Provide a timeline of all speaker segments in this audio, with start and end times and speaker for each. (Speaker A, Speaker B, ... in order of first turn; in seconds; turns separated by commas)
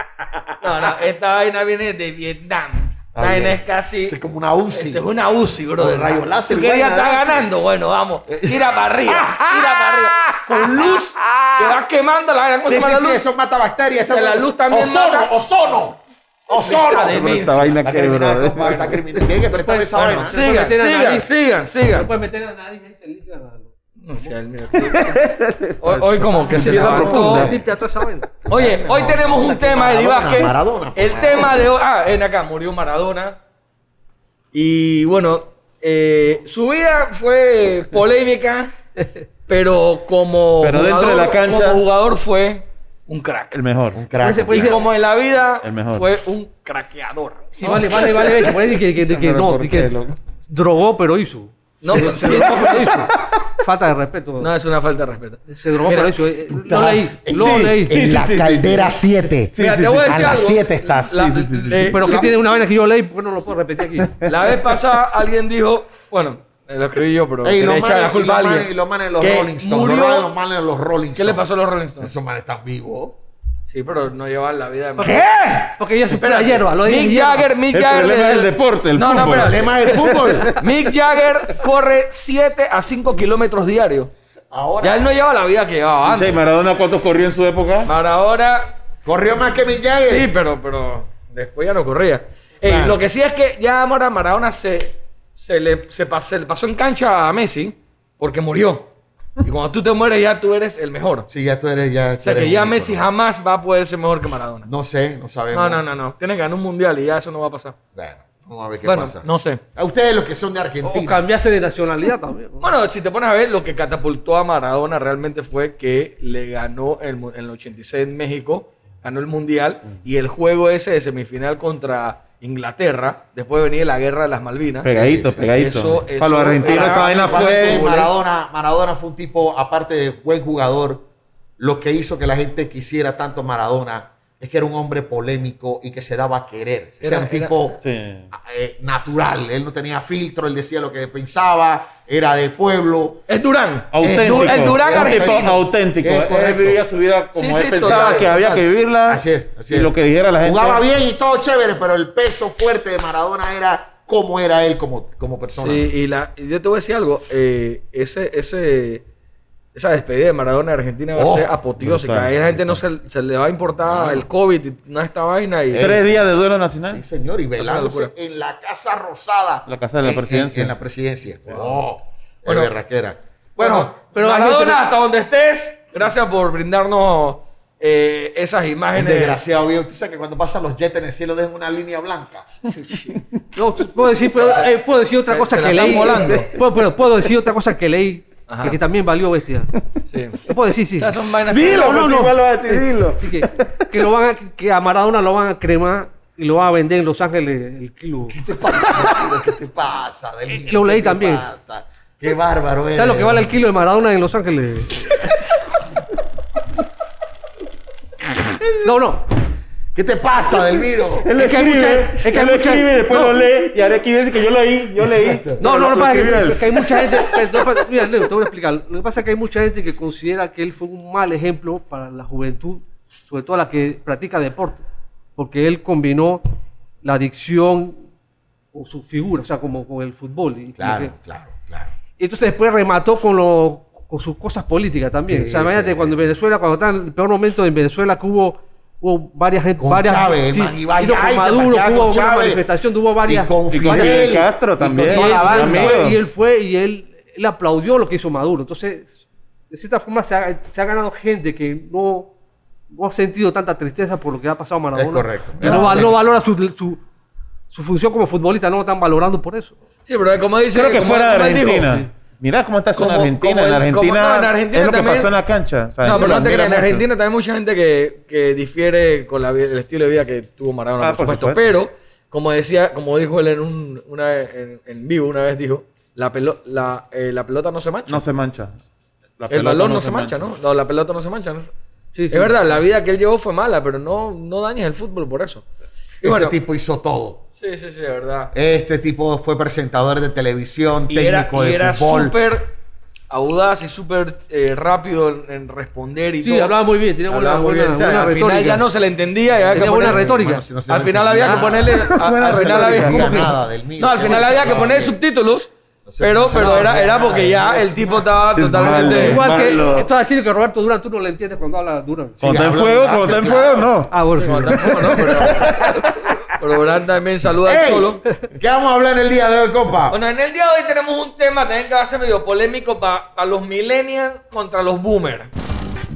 Speaker A: 0.6-4.2, Speaker B: 3.2-5.0, Speaker A: 4.7-13.2, Speaker B: 5.8-7.5, Speaker B: 8.3-11.8, Speaker B: 12.6-20.3, Speaker A: 14.0-15.3, Speaker A: 16.5-17.8, Speaker C: 17.1-19.0, Speaker D: 19.5-21.3, Speaker A: 19.9-22.1, Speaker D: 21.9-25.1, Speaker A: 24.0-25.1, Speaker C: 24.9-27.6, Speaker A: 25.8-27.5, Speaker B: 26.4-27.6, Speaker D: 26.7-28.3, Speaker B: 28.4-31.7, Speaker A: 28.5-33.4, Speaker A: 34.5-38.9, Speaker A: 39.5-43.6, Speaker C: 40.6-41.8, Speaker C: 43.5-44.0, Speaker B: 43.9-44.8, Speaker D: 44.2-44.8, Speaker A: 44.5-48.2, Speaker C: 45.6-46.1, Speaker D: 47.6-54.5, Speaker C: 47.8-50.2, Speaker A: 51.8-53.1, Speaker C: 52.0-53.3, Speaker A: 54.4-56.2, Speaker D: 55.5-58.0, Speaker B: 56.5-61.4, Speaker C: 57.3-59.0, Speaker C: 59.5-62.3, Speaker A: 59.6-62.4, Speaker D: 61.7-64.2, Speaker C: 64.0-64.3, Speaker A: 64.2-70.3, Speaker B: 67.4-71.4, Speaker A: 71.2-72.1, Speaker B: 72.0-73.2, Speaker A: 73.7-75.2, Speaker D: 75.0-77.5, Speaker B: 75.0-75.8, Speaker A: 76.1-79.6, Speaker C: 77.7-80.5, Speaker B: 79.2-80.6, Speaker A: 80.6-84.1, Speaker B: 84.5-85.2, Speaker A: 84.8-86.4, Speaker C: 86.0-87.9, Speaker A: 87.8-88.7, Speaker B: 89.0-90.3, Speaker A: 89.9-98.9, Speaker B: 92.6-93.0, Speaker A: 99.4-101.3, Speaker B: 101.3-103.0, Speaker A: 102.2-104.7, Speaker B: 104.7-105.8, Speaker A: 105.5-107.8, Speaker B: 107.9-111.2, Speaker A: 108.8-109.6, Speaker D: 110.8-112.7, Speaker A: 112.6-128.2, Speaker C: 124.8-127.9, Speaker B: 124.9-125.4, Speaker B: 126.6-131.1, Speaker B: 131.6-143.2, Speaker A: 137.0-137.5, Speaker C: 137.8-138.3, Speaker A: 143.3-145.6, Speaker C: 143.9-150.8, Speaker B: 144.0-146.8, Speaker A: 147.3-148.6, Speaker B: 147.8-148.3, Speaker B: 149.1-155.9, Speaker A: 155.6-159.0, Speaker A: 159.7-165.9, Speaker B: 161.2-161.5, Speaker C: 161.8-162.8, Speaker B: 163.8-164.2, Speaker B: 165.7-166.1, Speaker C: 165.8-167.0, Speaker B: 166.9-173.9, Speaker A: 167.6-168.1, Speaker C: 169.7-170.7, Speaker A: 172.5-172.7, Speaker A: 173.6-179.4, Speaker D: 174.2-174.8, Speaker B: 178.9-182.6, Speaker A: 182.6-183.2, Speaker D: 183.5-189.7, Speaker A: 184.3-184.7, Speaker A: 185.2-186.5, Speaker A: 188.5-188.8, Speaker A: 190.1-190.4, Speaker D: 190.4-191.1, Speaker A: 191.0-192.2, Speaker C: 191.4-193.9, Speaker D: 191.6-198.4, Speaker B: 198.3-203.5, Speaker D: 200.5-201.5, Speaker D: 202.9-205.1, Speaker D: 208.8-209.2, Speaker B: 209.9-211.3, Speaker C: 211.2-217.3, Speaker D: 211.3-213.4, Speaker B: 215.0-215.6, Speaker D: 215.6-224.8, Speaker D: 225.3-226.4, Speaker D: 227.0-228.0, Speaker D: 228.7-231.1, Speaker B: 230.8-231.9, Speaker D: 232.2-244.3, Speaker B: 235.3-236.2, Speaker B: 239.8-242.6, Speaker B: 243.2-246.0, Speaker C: 243.7-246.2, Speaker D: 245.1-249.2, Speaker D: 249.7-252.3, Speaker D: 252.9-257.0, Speaker B: 254.9-256.2, Speaker C: 255.6-256.1, Speaker D: 257.7-259.8, Speaker A: 260.1-262.0, Speaker C: 260.7-267.0, Speaker A: 263.0-265.3, Speaker A: 266.0-278.2, Speaker C: 271.0-271.6, Speaker C: 278.1-278.8, Speaker C: 279.4-280.5, Speaker A: 279.5-281.7, Speaker D: 282.1-282.5, Speaker A: 282.3-285.6, Speaker A: 286.2-286.6, Speaker B: 286.2-287.4, Speaker A: 287.6-288.5, Speaker B: 288.5-292.4, Speaker A: 291.1-292.7, Speaker A: 293.3-309.5, Speaker D: 296.4-298.9, Speaker D: 299.7-300.6, Speaker B: 299.8-305.2, Speaker C: 301.8-303.5, Speaker D: 304.2-304.8, Speaker B: 306.1-309.0, Speaker C: 308.5-310.1, Speaker D: 308.9-312.4, Speaker B: 312.4-314.0, Speaker C: 312.4-314.1, Speaker D: 314.1-315.3, Speaker A: 314.4-318.2, Speaker B: 315.0-315.8, Speaker B: 317.6-320.2, Speaker A: 320.1-325.5